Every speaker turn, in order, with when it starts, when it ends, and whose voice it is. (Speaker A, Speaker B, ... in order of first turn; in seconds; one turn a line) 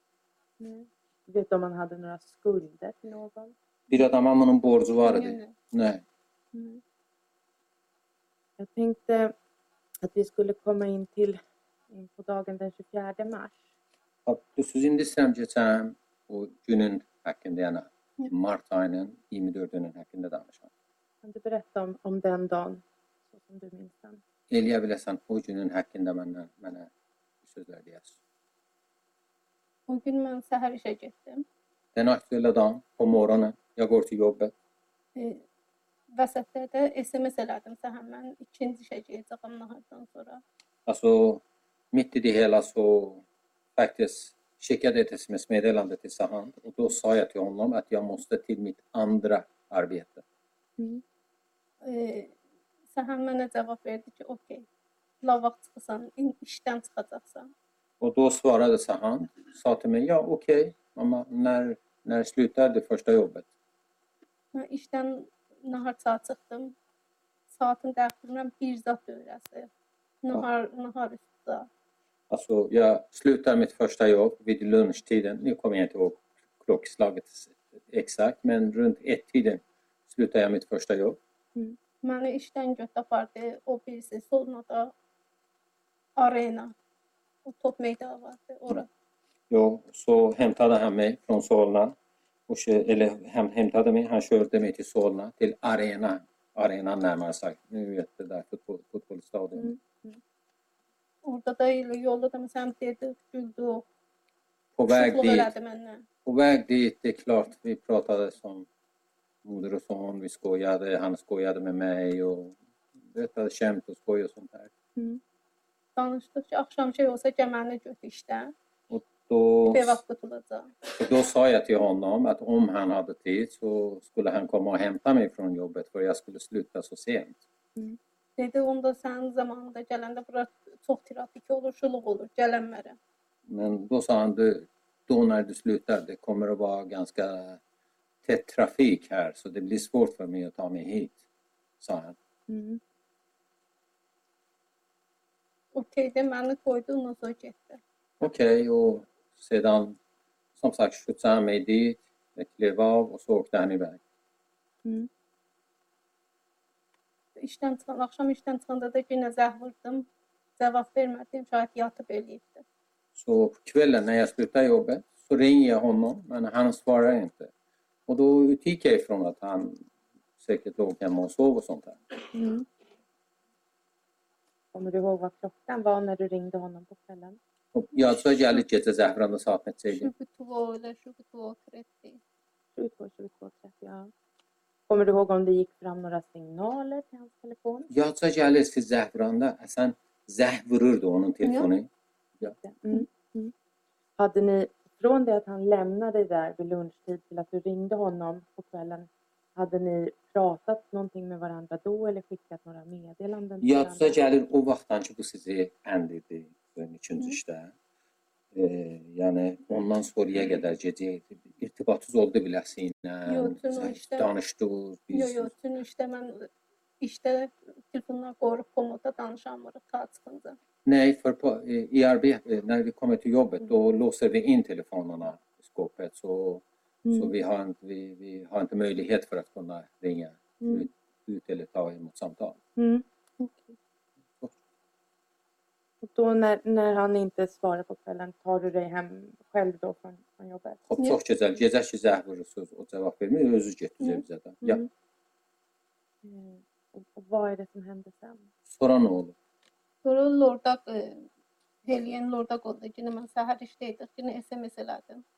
Speaker A: 0.6-3.5
Speaker B: 3.9-6.0
Speaker C: 5.0-5.5
Speaker A: 6.5-6.8
Speaker A: 8.6-9.3
Speaker A: 10.0-11.4
Speaker A: 11.9-13.6
Speaker B: 14.2-20.7
Speaker A: 21.2-24.2
Speaker B: 24.5-26.9
Speaker B: 27.4-28.2
Speaker C: 29.9-31.5
Speaker B: 31.9-34.5
Speaker C: 35.1-35.4
Speaker C: 36.1-40.4
Speaker B: 40.9-43.2
Speaker B: 43.8-50.2
Speaker A: 50.8-51.0
Speaker C: 51.8-52.4
Speaker C: 52.9-54.6
Speaker C: 55.2-57.5
Speaker B: 58.0-63.5
Speaker C: 64.5-66.8
Speaker C: 67.5-69.7
Speaker C: 70.2-71.7
Speaker B: 72.3-81.2
Speaker C: 82.0-84.9
Speaker C: 86.2-86.8
Speaker C: 87.5-88.9
Speaker B: 89.5-92.0
Speaker B: 92.5-99.7
Speaker A: 99.6-100.2
Speaker C: 101.2-103.8
Speaker B: 104.8-105.5
Speaker C: 104.9-106.0
Speaker B: 106.2-108.7
Speaker B: 109.5-112.5
Speaker B: 113.1-114.7
Speaker A: 115.0-115.2
Speaker C: 116.0-118.5
Speaker B: 118.9-120.0
Speaker C: 119.7-120.7
Speaker B: 120.9-127.4
Speaker C: 128.4-133.0
Speaker B: 133.5-137.6
Speaker B: 138.2-141.2
Speaker B: 141.8-142.2
Speaker A: 142.5-142.8
Speaker C: 145.7-147.8
Speaker B: 148.2-150.0
Speaker B: 150.6-154.0
Speaker C: 157.4-162.6
Speaker B: 163.2-167.5
Speaker B: 168.1-169.8
Speaker B: 170.4-172.0
Speaker A: 172.3-172.7
Speaker A: 174.7-177.4
Speaker B: 177.7-180.1
Speaker C: 179.9-182.2
Speaker A: 182.8-184.1
Speaker A: 184.9-187.9
Speaker B: 187.9-191.9
Speaker C: 191.4-191.7
Speaker A: 192.6-193.5
Speaker A: 194.2-204.2
Speaker B: 203.6-207.7
Speaker B: 208.5-215.5
Speaker C: 213.3-214.3
Speaker C: 215.1-216.5
Speaker C: 217.0-220.6
Speaker B: 220.8-232.6
Speaker A: 227.0-227.3
Speaker A: 232.8-233.0
Speaker C: 233.4-233.8
Speaker A: 236.0-240.8
Speaker B: 240.9-244.8
Speaker A: 244.6-244.9
Speaker A: 246.2-248.5
Speaker B: 248.7-249.3
Speaker C: 250.0-251.3
Speaker C: 251.8-255.2